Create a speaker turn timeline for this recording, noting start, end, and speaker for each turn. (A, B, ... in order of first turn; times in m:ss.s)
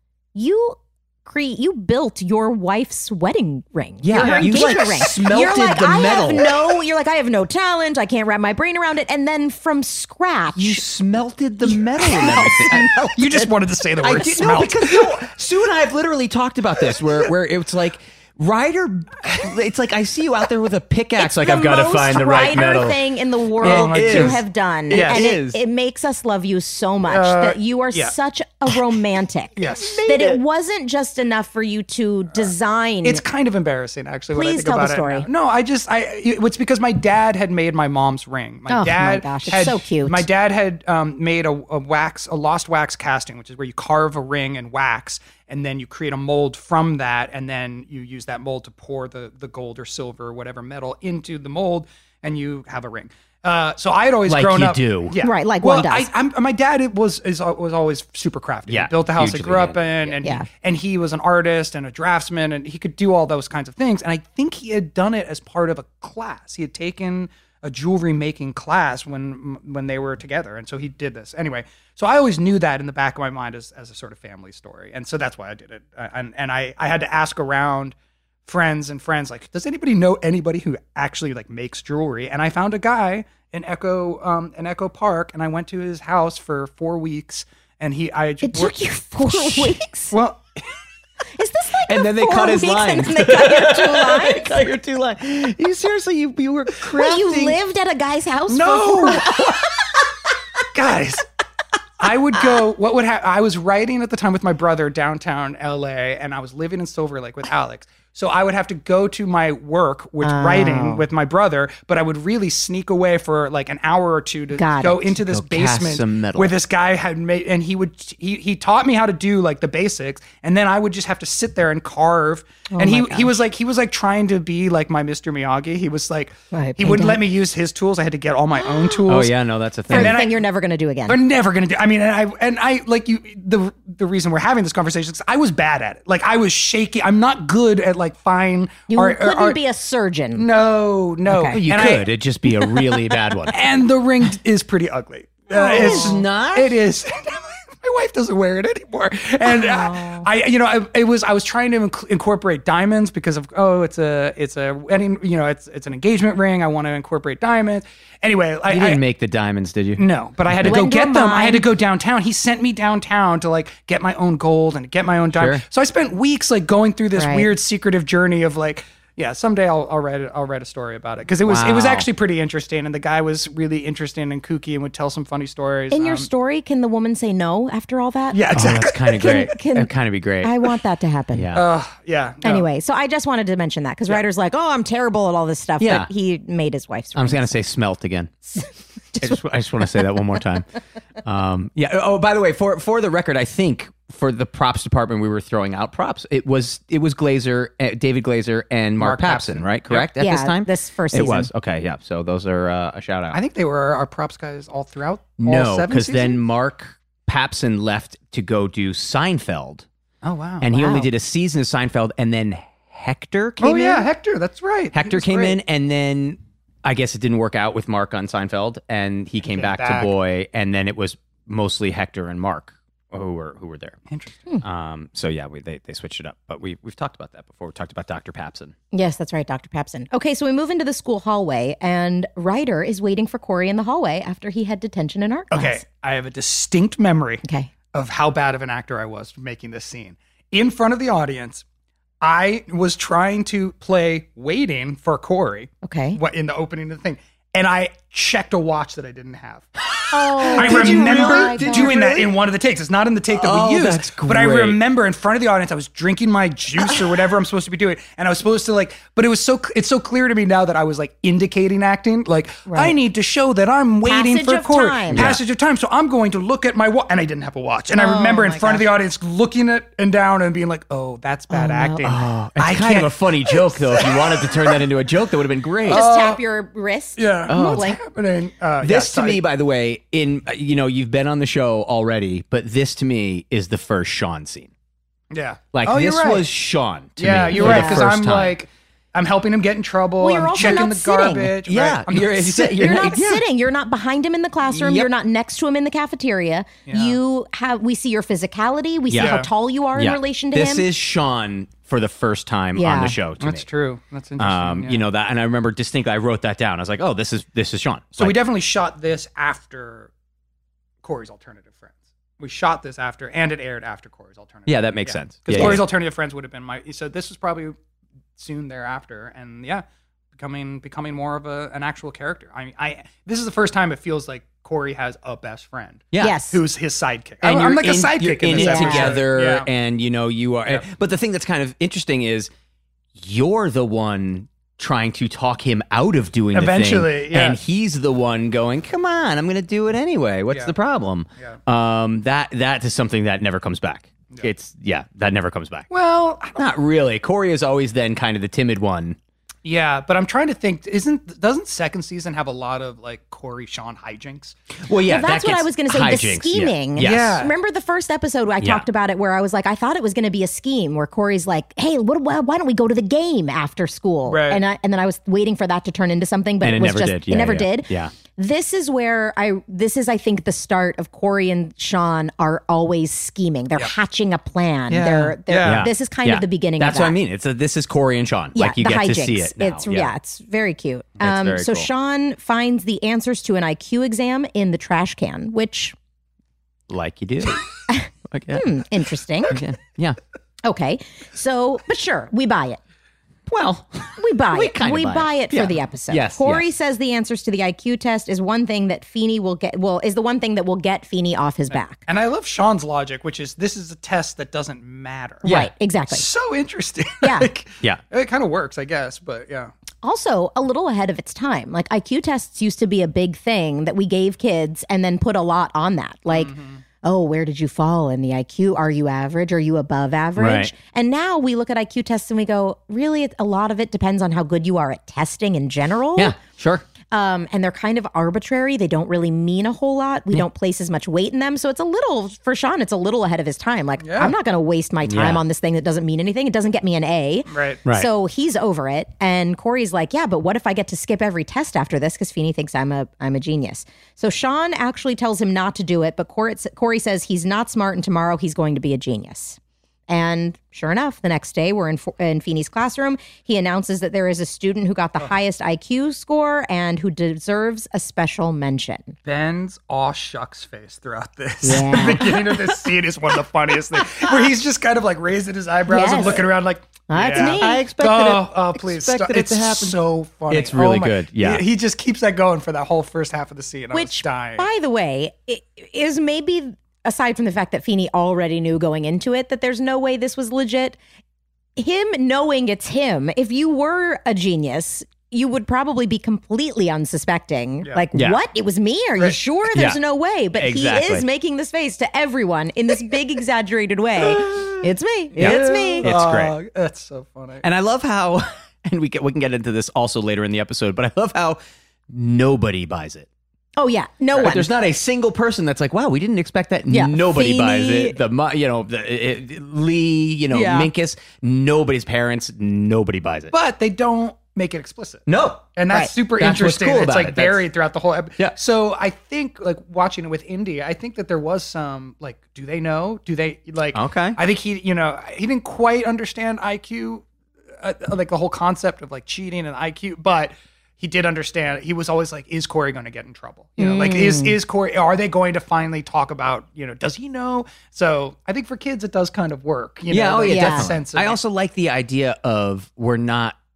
0:00.3-0:10.8 A
0:04.0-0:06.5 B
0:04.1-0:04.8 C
0:10.6-0:13.2 B
0:11.6-0:13.5 A
0:13.0-0:15.2 C
0:14.0-0:23.0 B
0:21.2-0:33.2 A
0:23.6-0:25.3 C
0:23.6-0:25.6 B
0:27.0-0:28.1 C
0:29.6-0:30.4 C
0:33.0-1:30.4 C
0:34.3-0:35.3 A
0:38.7-0:40.2 A
0:54.3-0:55.2 B
0:55.2-0:56.1 A
0:58.7-1:00.2 B
1:28.4-1:30.2 A
1:31.4-1:34.6 A
1:31.8-1:37.6 B
1:36.8-1:39.8 A
1:38.5-1:39.3 C
1:40.7-1:41.2 C
1:42.0-2:09.3 C
1:50.2-1:51.0 A
1:54.5-1:55.1 A
1:55.2-1:56.6 B
2:02.7-2:03.3 A
2:06.5-2:07.2 A
2:09.1-2:10.2 B
2:09.9-2:10.4 C
2:09.9-2:11.2 A
2:11.1-2:19.6 C
2:18.9-2:20.5 A
2:20.4-2:22.0 C
2:21.3-2:21.6 A
2:21.5-2:23.6 B
2:23.5-2:39.0 C
2:25.5-2:26.2 A
2:25.6-2:26.8 B
2:29.4-2:30.3 A
2:38.7-2:40.0 B
2:40.0-2:56.3 C
2:40.6-2:41.6 A
2:45.3-2:45.6 B
2:47.2-2:47.5 A
2:51.4-2:52.1 B
2:55.9-2:58.5 A
2:58.3-2:59.5 C
2:58.5-3:00.5 B
2:59.1-2:59.9 A
3:00.4-3:01.5 A
3:01.3-3:01.6 B
3:01.5-3:02.6 C
3:02.4-3:07.5 A
3:05.8-3:06.1 B
3:07.1-3:08.5 B
3:09.1-3:09.4 A
3:09.2-3:10.7 B
3:11.2-3:23.4 B
3:19.0-3:20.1 C
3:20.2-3:21.5 A
3:23.3-3:26.4 C
3:25.4-3:29.9 B
3:30.2-3:30.7 C
3:30.6-3:34.1 B
3:30.7-3:31.1 A
3:33.6-3:35.6 C
3:34.9-3:44.0 B
3:39.4-3:40.1 C
3:44.1-3:44.4 C
3:44.6-3:48.7 B
3:48.9-3:55.8 A
3:55.5-4:01.6 C
3:57.4-3:57.7 A
4:02.2-4:09.7 C
4:05.8-4:06.2 A
4:10.1-4:12.0 A
4:10.3-4:12.3 B
4:10.4-4:34.8 C
4:13.3-4:14.8 B
4:22.7-4:22.9 A
4:24.0-4:25.3 A
4:25.1-4:25.4 B
4:27.9-4:28.8 A
4:31.5-4:32.0 A
4:32.0-4:36.1 B
4:35.8-4:38.0 A
4:35.9-4:36.4 C
4:37.2-4:39.4 C
4:37.5-4:37.9 B
4:38.8-4:44.7 B
4:45.3-4:46.4 C
4:45.7-4:48.6 B
4:47.2-4:53.4 C
4:47.5-4:48.0 A
4:50.2-4:51.6 A
4:51.6-4:53.4 B
4:52.8-5:00.9 A
4:54.7-4:55.1 B
4:56.8-4:57.2 C
4:59.1-4:59.4 B
4:59.2-4:59.5 C
4:59.9-5:03.6 B
5:02.8-5:03.2 A
5:03.4-5:05.0 C
5:04.4-5:08.4 B
5:08.2-5:10.1 C
5:11.0-5:17.8 C
5:14.7-5:15.8 B
5:18.4-5:29.7 C
5:26.2-5:26.6 A
5:27.4-5:32.5 B
5:28.5-5:29.2 A
5:33.2-5:45.9 B
5:36.5-5:37.6 C
5:40.5-5:40.7 C
5:45.9-5:46.6 C
5:46.6-5:49.2 B
5:49.6-5:54.6 C
5:54.8-5:57.4 B
5:55.0-6:17.2 A
5:57.0-5:57.5 C
6:04.3-6:04.6 C
6:06.6-6:08.1 B
6:14.9-6:15.9 C
6:15.6-6:20.1 B
6:18.5-6:25.9 A
6:21.2-6:21.9 B
6:26.9-6:27.6 B
6:27.9-6:29.6 A
6:28.3-6:28.7 B
6:29.5-6:30.2 B
6:30.6-6:32.8 A
6:33.5-6:36.6 B
6:34.2-6:42.0 A
6:41.7-6:45.4 C
6:45.4-6:45.7 B
6:45.4-6:46.2 A
6:46.1-6:49.7 C
6:47.2-6:47.5 A
6:50.0-7:06.4 A
6:56.3-6:56.8 C
7:00.4-7:00.7 B
7:06.2-7:06.8 B
7:07.1-7:29.6 A
7:14.0-7:14.3 C
7:15.0-7:15.4 B
7:17.5-7:17.8 C
7:30.1-7:39.2 A
7:39.2-7:54.6 C
7:41.6-7:42.4 A
7:45.9-7:46.5 A
7:47.1-7:47.8 A
7:47.4-7:50.0 B
7:50.5-7:51.6 B
7:53.9-8:01.0 A
8:01.8-8:16.1 A
8:08.1-8:08.4 B
8:09.7-8:10.0 B
8:10.5-8:11.2 B
8:14.3-8:14.7 C
8:15.4-8:16.6 B
8:15.4-8:17.6 C
8:17.6-8:23.3 B
8:23.8-8:24.7 A
8:24.3-8:33.5 B
8:26.9-8:28.2 A
8:30.5-8:30.9 A
8:33.5-8:35.2 C
8:35.2-8:35.7 B
8:35.8-8:47.2 C
8:36.4-8:37.6 B
8:43.9-8:44.4 B
8:47.8-9:01.4 C
8:53.8-8:54.6 A
9:00.1-9:03.6 B
9:00.4-9:00.9 A